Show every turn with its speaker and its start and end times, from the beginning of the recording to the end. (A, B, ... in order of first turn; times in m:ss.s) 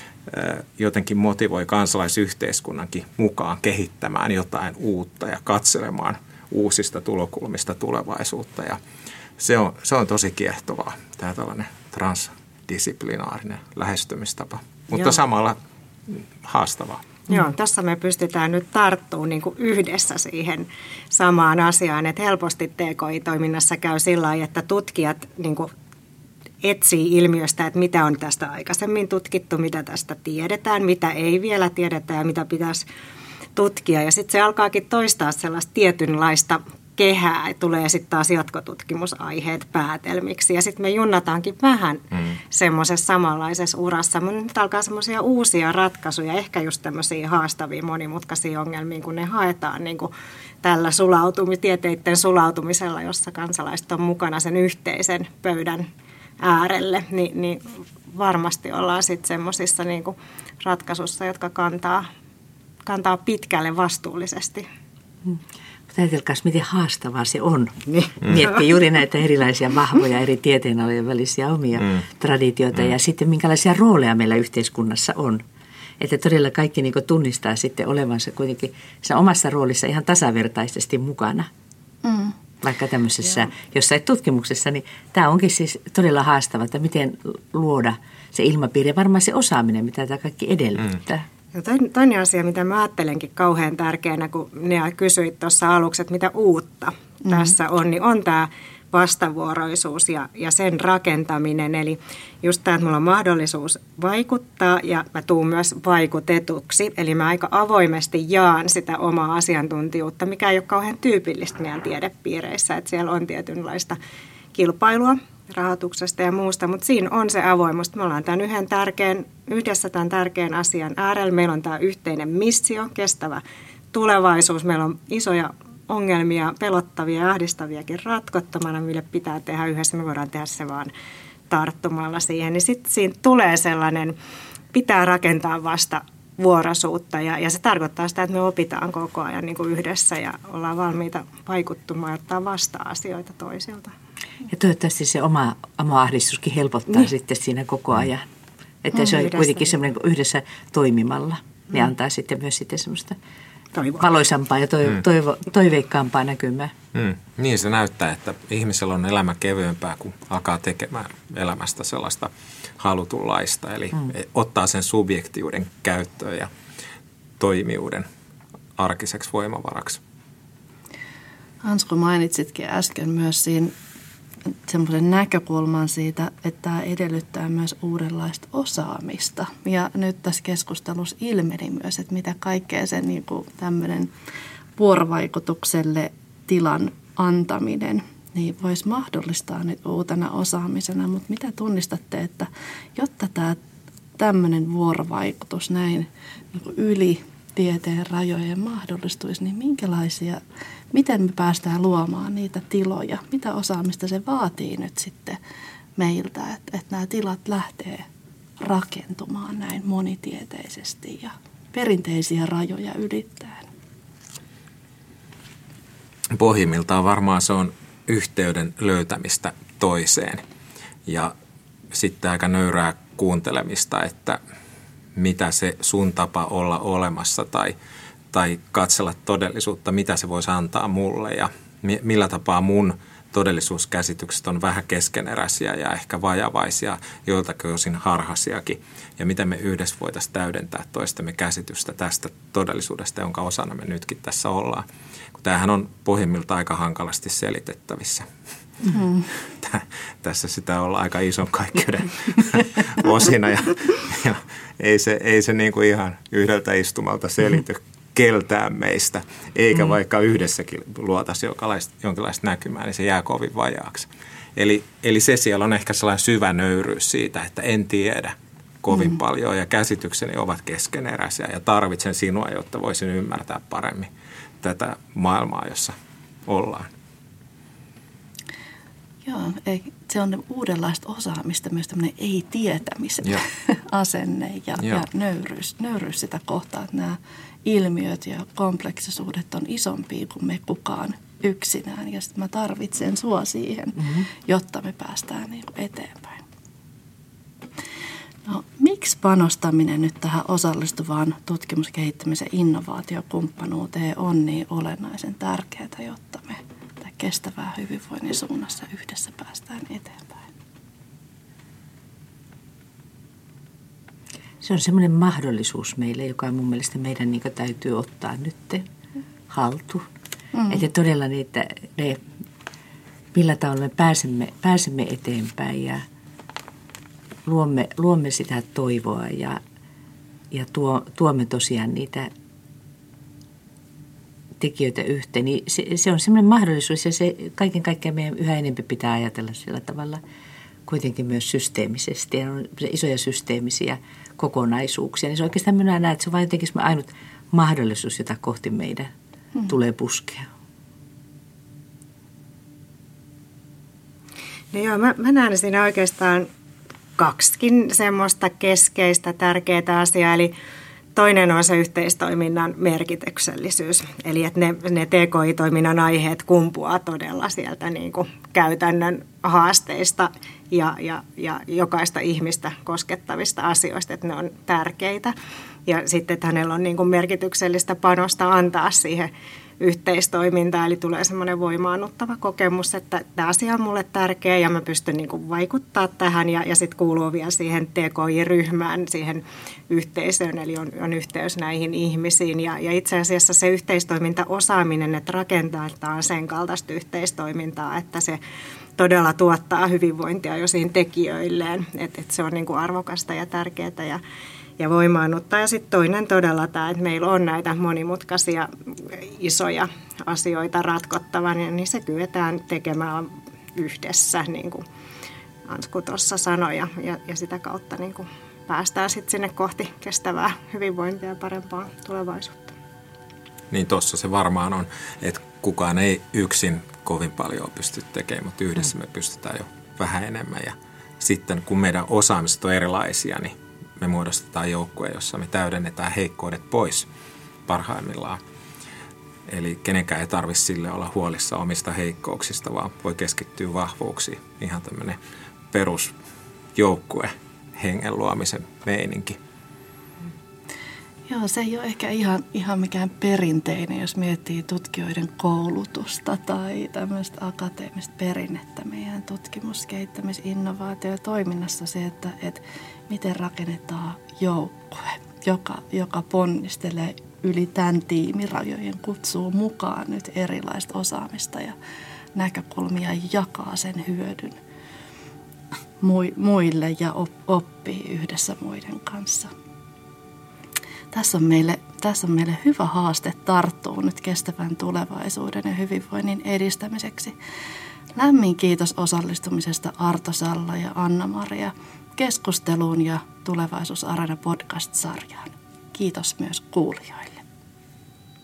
0:00.3-0:08.8 A
0:09.4-0:15.6 A
0:16.1-0:17.2 A
0:17.3-0:25.7 B
0:26.6-0:32.8 B
0:33.5-0:50.1 B
0:50.6-0:55.8 B
0:56.4-1:02.1 B
1:02.8-1:04.6 B
1:05.3-1:15.4 C
1:07.9-1:08.1 B
1:16.0-1:21.5 C
1:22.0-1:22.3 D
1:22.6-1:31.3 C
1:31.5-1:54.0 B
1:37.2-1:37.5 D
1:54.5-2:03.4 B
2:03.9-2:10.9 B
2:11.5-2:14.1 B
2:14.7-2:23.9 B
2:24.5-2:28.3 C
2:28.8-2:33.2 C
2:29.1-2:29.7 B
2:33.7-2:34.0 B
2:34.0-2:36.7 C
2:36.9-2:46.5 A
2:47.4-2:48.0 A
2:48.8-2:50.0 A
2:51.6-2:53.7 D
2:54.7-3:04.1 D
3:04.8-3:13.6 D
3:14.2-3:20.4 D
3:20.9-3:25.4 D
3:26.0-3:28.0 D
3:28.6-3:33.7 D
3:36.3-3:40.4 A
3:41.0-3:41.3 A
3:41.9-3:44.4 A
3:45.2-3:47.7 A
3:48.3-4:08.2 A
4:09.0-4:09.2 D
4:09.6-4:35.9 A
4:36.4-4:36.9 A
4:39.2-4:56.4 D
4:58.4-5:10.5 D
5:14.6-5:18.8 C
5:19.5-5:20.0 C
5:20.5-5:20.8 D
5:20.7-5:22.2 C
5:23.3-5:26.0 C
5:27.4-5:29.6 C
5:30.5-5:32.3 C
5:34.6-5:40.2 C
5:40.9-5:49.1 C
5:49.7-5:50.5 C
5:54.7-5:56.5 B
5:57.2-6:00.5 B
6:01.1-6:15.3 B
6:15.8-6:38.4 B
6:39.0-6:44.2 B
6:44.8-6:54.8 B
6:55.6-7:02.7 B
7:03.7-7:17.1 A
7:17.7-7:18.4 A
7:19.5-7:25.2 A
7:25.7-7:26.1 A
7:26.7-7:29.4 A
7:31.3-7:51.7 D
7:52.3-7:54.6 D
7:56.0-7:59.5 D
8:01.1-8:07.3 D
8:08.2-8:17.4 D